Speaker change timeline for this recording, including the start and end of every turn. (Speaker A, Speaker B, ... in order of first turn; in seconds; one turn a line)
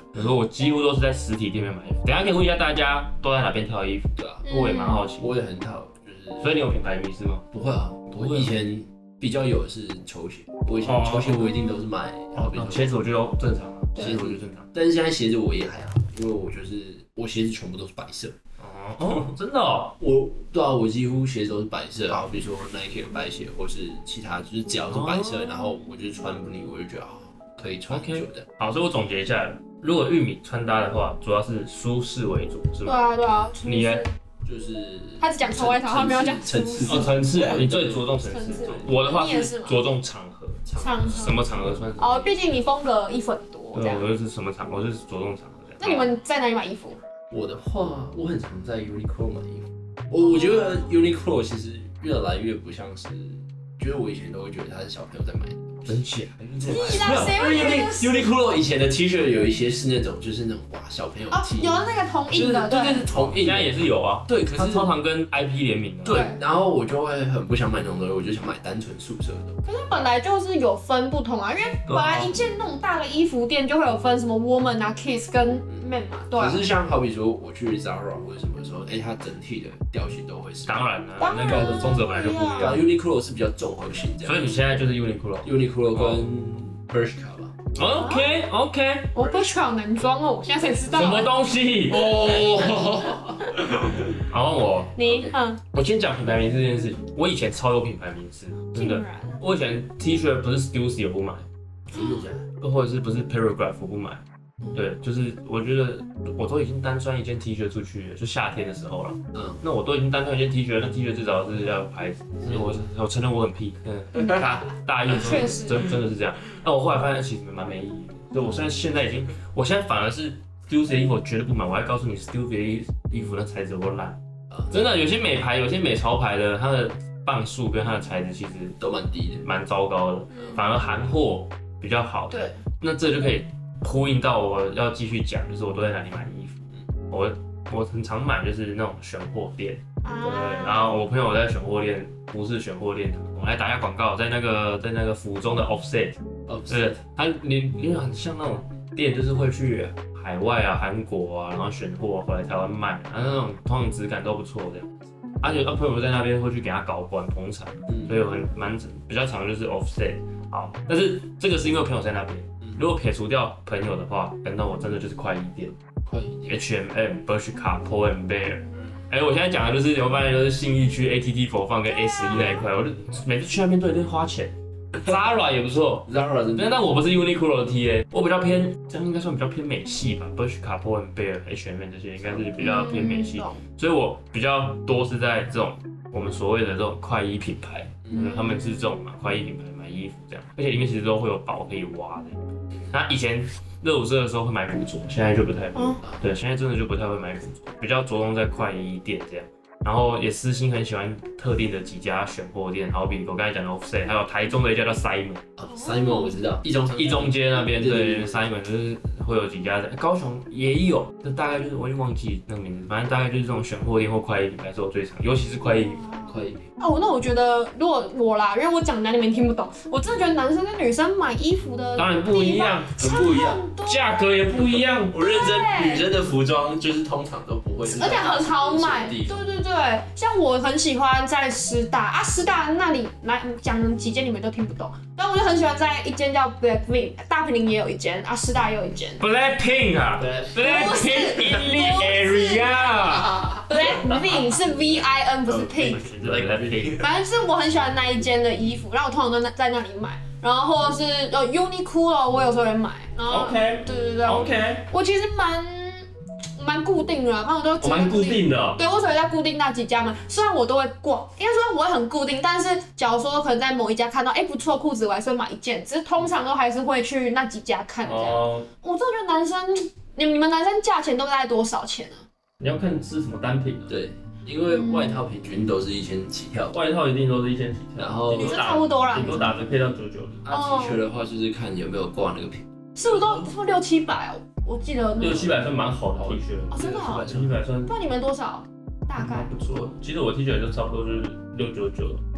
Speaker A: 0.1-5.3
Speaker B: 4.2-4.5
Speaker C: 4.5-5.1
Speaker B: 5.2-6.7
Speaker A: 6.4-7.4
Speaker B: 7.5-12.9
Speaker A: 8.1-8.5
Speaker A: 10.8-11.6
Speaker A: 12.3-14.7
Speaker B: 14.0-18.4
Speaker A: 18.6-20.0
Speaker B: 20.0-28.5
Speaker A: 24.9-25.6
Speaker A: 27.9-33.0
Speaker C: 32.8-34.1
Speaker A: 33.6-34.0
Speaker B: 34.4-38.9
Speaker C: 35.2-37.1
Speaker A: 36.8-42.6
Speaker C: 38.2-39.8
Speaker B: 40.7-41.9
Speaker C: 40.8-41.4
Speaker C: 42.0-44.1
Speaker A: 43.7-46.1
Speaker C: 45.8-47.0
Speaker B: 47.3-56.0
Speaker C: 50.2-50.9
Speaker A: 55.9-57.5
Speaker B: 56.6-61.8
Speaker C: 56.6-58.3
Speaker C: 61.3-63.1
Speaker B: 62.3-65.0
Speaker A: 63.1-66.3
Speaker B: 66.0-69.6
Speaker C: 66.1-66.4
Speaker C: 69.6-76.6
Speaker A: 71.9-72.4
Speaker B: 76.3-80.8
Speaker A: 80.7-82.9
Speaker C: 81.2-82.8
Speaker B: 81.4-82.0
Speaker B: 82.5-84.8
Speaker A: 84.2-86.3
Speaker B: 85.4-87.6
Speaker A: 87.7-89.1
Speaker C: 88.0-88.3
Speaker C: 89.1-91.3
Speaker A: 90.9-92.7
Speaker B: 91.9-94.2
Speaker A: 93.6-95.2
Speaker C: 95.0-95.6
Speaker A: 95.7-101.5
Speaker C: 98.7-99.4
Speaker C: 101.9-102.3
Speaker B: 101.9-102.5
Speaker A: 102.6-104.2
Speaker A: 104.7-124.2
Speaker B: 112.4-112.8
Speaker C: 115.1-115.8
Speaker B: 124.5-124.8
Speaker A: 124.7-128.8
Speaker B: 128.8-129.4
Speaker A: 129.4-136.6
Speaker C: 132.3-132.6
Speaker A: 137.1-165.8
Speaker C: 140.0-140.9
Speaker B: 146.5-146.9
Speaker B: 153.2-153.5
Speaker B: 157.9-158.2
Speaker B: 166.1-166.6
Speaker A: 166.5-192.4
Speaker C: 172.2-172.5
Speaker B: 176.1-176.8
Speaker C: 182.6-183.6
Speaker C: 188.1-188.6
Speaker A: 192.9-205.4
Speaker C: 195.8-196.0
Speaker B: 205.6-208.4
Speaker C: 205.7-206.3
Speaker A: 206.9-216.0
Speaker C: 215.7-224.1
Speaker B: 216.3-216.6
Speaker A: 222.0-225.2
Speaker B: 223.0-223.6
Speaker B: 225.1-229.5
Speaker C: 225.2-226.1
Speaker C: 227.9-239.2
Speaker A: 239.2-243.7
Speaker B: 240.2-240.6
Speaker C: 240.6-246.0
Speaker B: 245.5-247.1
Speaker A: 245.8-247.1
Speaker C: 247.0-272.2
Speaker A: 253.3-254.9
Speaker A: 257.8-258.8
Speaker A: 268.1-268.7
Speaker A: 272.6-274.0
Speaker B: 273.9-276.8
Speaker C: 274.7-275.2
Speaker A: 276.7-280.5
Speaker B: 278.0-278.7
Speaker C: 278.3-279.5
Speaker B: 280.4-283.5
Speaker C: 280.5-281.0
Speaker C: 283.0-285.6
Speaker A: 285.2-287.9
Speaker B: 286.2-287.6
Speaker C: 286.7-289.6
Speaker A: 289.2-292.2